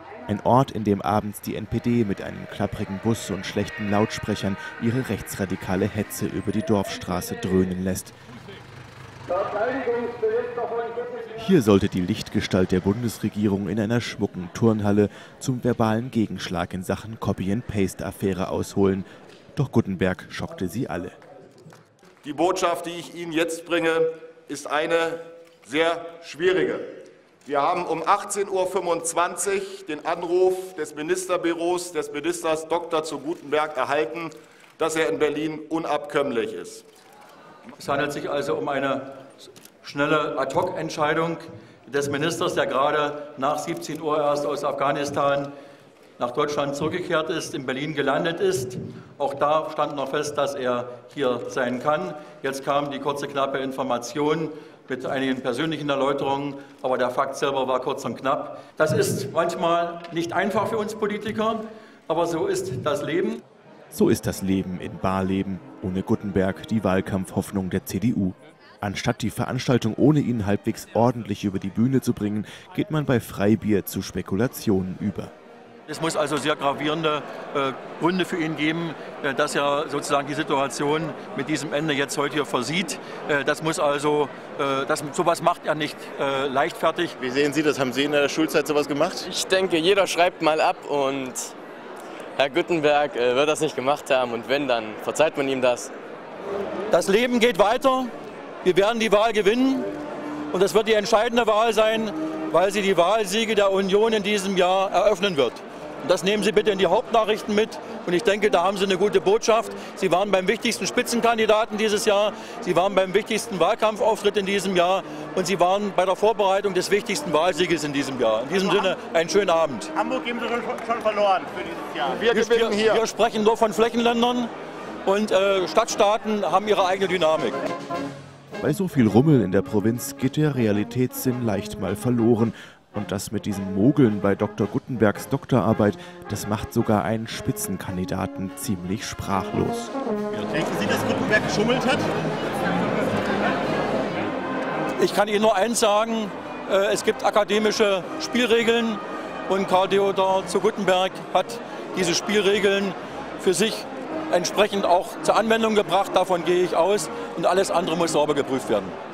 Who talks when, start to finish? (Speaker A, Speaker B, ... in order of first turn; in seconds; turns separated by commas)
Speaker A: 0.3-8.1, Speaker A: 11.3-21.1, Speaker B: 22.2-26.9, Speaker B: 27.4-36.8, Speaker C: 37.8-39.2, Speaker C: 39.8-45.5, Speaker C: 46.2-63.4, Speaker A: 63.9-75.3, Speaker C: 75.9-87.2, Speaker D: 87.2-89.3, Speaker E: 89.3-91.5, Speaker E: 92.4-95.9, Speaker C: 96.9-98.1, Speaker C: 98.6-99.9, Speaker C: 100.5-119.9, Speaker D: 118.7-118.9, Speaker D: 119.9-122.2, Speaker B: 122.2-123.0, Speaker C: 122.3-124.5, Speaker C: 125.0-127.6, Speaker A: 128.6-139.9, Speaker D: 140.3-142.1, Speaker C: 145.0-158.9